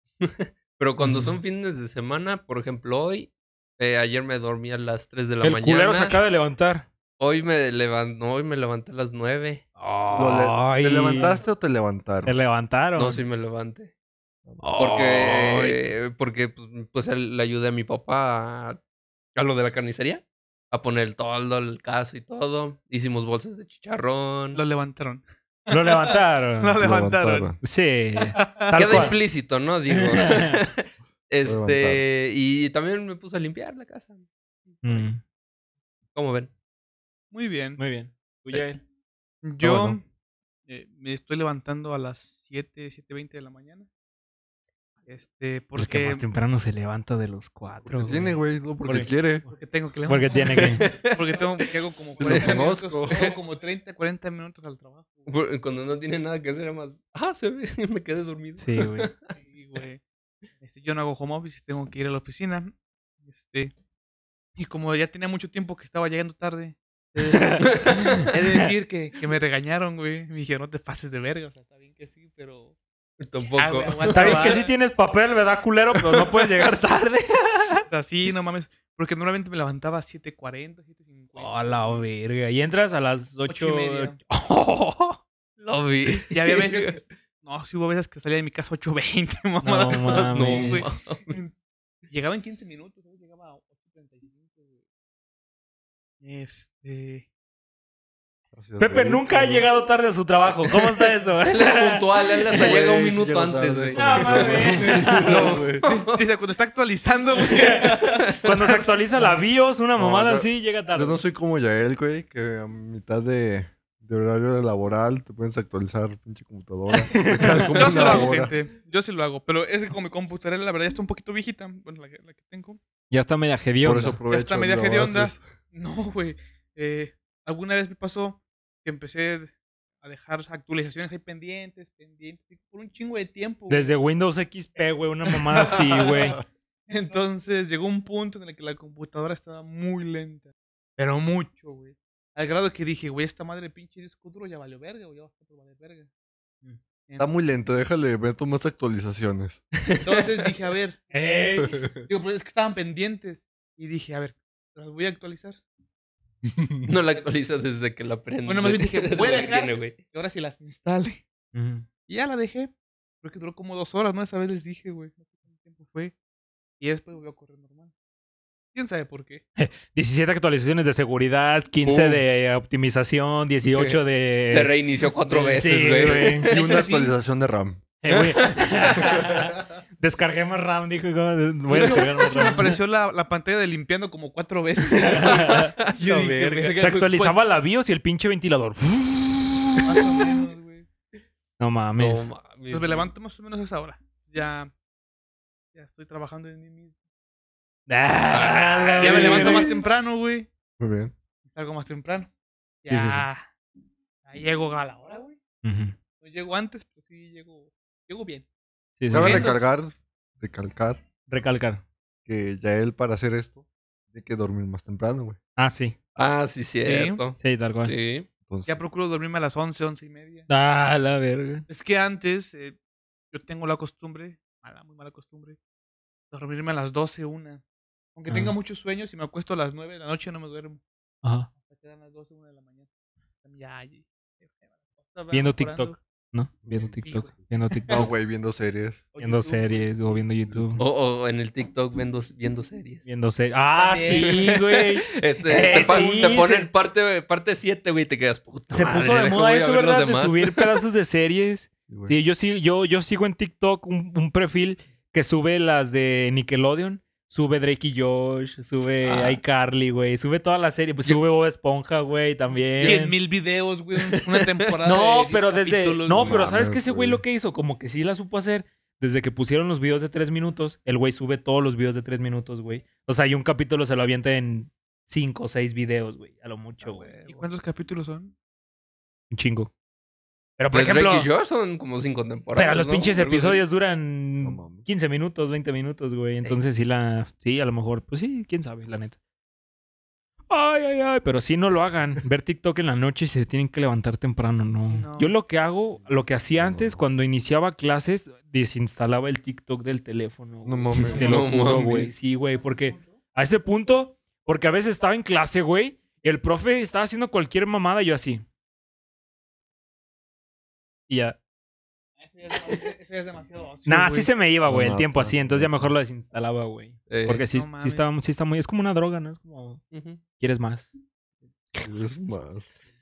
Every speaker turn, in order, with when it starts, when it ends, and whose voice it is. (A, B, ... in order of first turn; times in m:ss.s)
0:00.2-0:06.2 A
0:01.0-0:01.4 B
0:05.4-0:06.8 B
0:07.2-0:09.6 A
0:09.8-0:11.4 B
0:10.1-0:12.4 C
0:12.2-0:13.2 B
0:13.0-0:13.9 A
0:14.6-0:15.8 B
0:14.7-0:18.8 A
0:19.3-0:24.6 A
0:24.5-0:27.6 D
0:25.7-0:26.8 B
0:26.8-0:27.6 C
0:27.6-0:29.2 B
0:28.3-0:29.1 D
0:28.7-0:35.1 A
0:29.9-0:30.6 B
0:31.4-0:32.0 C
0:34.8-0:35.2 B
0:36.1-0:36.5 A
0:37.3-0:37.8 D
0:37.8-0:38.8 B
0:39.4-0:40.0 D
0:39.6-0:40.0 C
0:40.7-0:43.9 D
0:45.0-0:46.2 D
0:45.8-0:49.1 B
0:48.0-0:49.4 C
0:49.5-0:55.3 D
0:50.1-0:51.0 B
0:50.5-0:51.4 A
0:52.2-0:53.2 C
0:52.2-0:52.5 A
0:53.1-0:53.3 A
0:55.2-0:59.2 A
0:58.6-0:59.1 B
0:59.4-1:00.0 D
1:00.6-1:02.7 D
1:03.2-1:03.7 D
1:04.6-1:12.7 D
1:07.3-1:08.3 B
1:07.6-1:08.3 A
1:13.2-1:14.6 A
1:13.6-1:14.6 D
1:14.1-1:17.8 B
1:17.9-1:22.0 D
1:21.4-1:25.2 B
1:23.5-1:24.2 D
1:25.6-1:27.0 A
1:26.3-1:31.5 D
1:29.6-1:30.9 B
1:30.3-1:31.4 A
1:32.1-1:34.7 D
1:36.2-1:37.3 D
1:38.5-1:39.6 C
1:38.8-1:42.8 B
1:41.4-1:46.2 A
1:42.5-1:45.8 C
1:43.9-1:45.6 B
1:45.8-1:49.4 D
1:47.5-1:51.2 B
1:47.7-1:48.2 A
1:50.0-1:58.5 C
1:57.0-1:58.3 B
1:57.7-2:02.8 D
2:03.1-2:04.2 B
2:03.8-2:05.4 C
2:04.3-2:13.9 D
2:13.7-2:16.4 B
2:15.4-2:16.4 D
2:16.9-2:26.1 D
2:27.1-2:27.3 D
2:27.2-2:29.6 C
2:30.0-2:31.0 D
2:31.1-2:31.8 B
2:31.6-2:32.0 C
2:32.0-2:35.6 D
2:36.5-2:36.8 C
2:36.8-2:40.0 A
2:38.4-2:41.2 D
2:41.5-2:41.8 B
2:42.1-2:46.1 D
2:46.8-2:47.9 D
2:48.7-2:49.4 D
2:49.6-2:56.5 B
2:51.8-2:52.2 A
2:53.7-2:56.6 A
2:56.4-2:57.8 C
2:56.5-2:57.2 D
2:58.0-3:02.8 B
2:58.1-2:59.1 A
3:01.7-3:07.4 D
3:05.0-3:05.7 B
3:05.0-3:06.8 A
3:06.8-3:10.0 B
3:09.8-3:10.9 D
3:11.6-3:12.3 B
3:12.0-3:13.1 A
3:12.7-3:14.7 D
3:15.7-3:16.9 D
3:17.9-3:19.7 B
3:18.3-3:19.8 A
3:19.0-3:20.5 D
3:20.8-3:21.1 C
3:21.4-3:22.3 D
3:22.8-3:23.5 D
3:22.9-3:23.2 B
3:24.2-3:25.4 D
3:25.6-3:26.0 B
3:26.2-3:28.4 D
3:29.0-3:29.5 B
3:29.1-3:31.0 C
3:29.1-3:29.6 D
3:31.3-3:31.8 B
3:32.2-3:35.4 C
3:35.6-3:36.0 B
3:36.2-3:38.3 A
3:36.8-3:37.2 D
3:37.4-3:37.9 B
3:38.5-3:38.8 C
3:38.6-3:40.5 D
3:40.5-3:41.6 B
3:41.7-3:42.8 D
3:43.3-3:45.6 D
3:46.3-3:47.6 D
3:48.1-3:50.8 D
3:48.3-3:48.6 B
3:51.2-3:51.5 B
3:51.6-3:52.9 D
3:53.4-3:56.0 D
3:55.3-3:58.1 B
3:56.6-3:57.0 C
3:57.0-3:58.1 D
3:57.9-3:59.1 C
3:59.1-3:59.9 D
3:59.2-4:00.8 B
4:00.5-4:00.8 C
4:00.8-4:03.0 A
4:03.0-4:06.7 B
4:03.7-4:04.4 D
4:04.0-4:10.8 A
4:05.7-4:06.3 D
4:08.7-4:23.2 B
4:11.9-4:12.1 C
4:19.0-4:19.4 A
4:22.8-4:26.5 D
4:24.8-4:37.1 B
4:26.1-4:27.2 C
4:36.8-4:37.5 A
4:37.2-4:38.3 D
4:39.3-4:39.7 B
4:40.6-4:41.3 B
4:40.7-4:43.6 A
4:42.5-4:49.2 B
4:44.4-4:44.8 C
4:50.5-5:08.4 B
4:54.9-4:55.3 D
4:56.6-4:57.0 C
5:00.6-5:01.4 C
5:01.0-5:02.1 A
5:02.6-5:03.2 D
5:11.1-5:11.4 B
5:12.2-5:14.3 D
5:13.8-5:19.8 B
5:14.7-5:15.9 C
5:17.1-5:17.5 A
5:17.5-5:18.1 D
5:19.9-5:20.2 A
5:20.4-5:20.9 B
5:21.8-5:22.7 C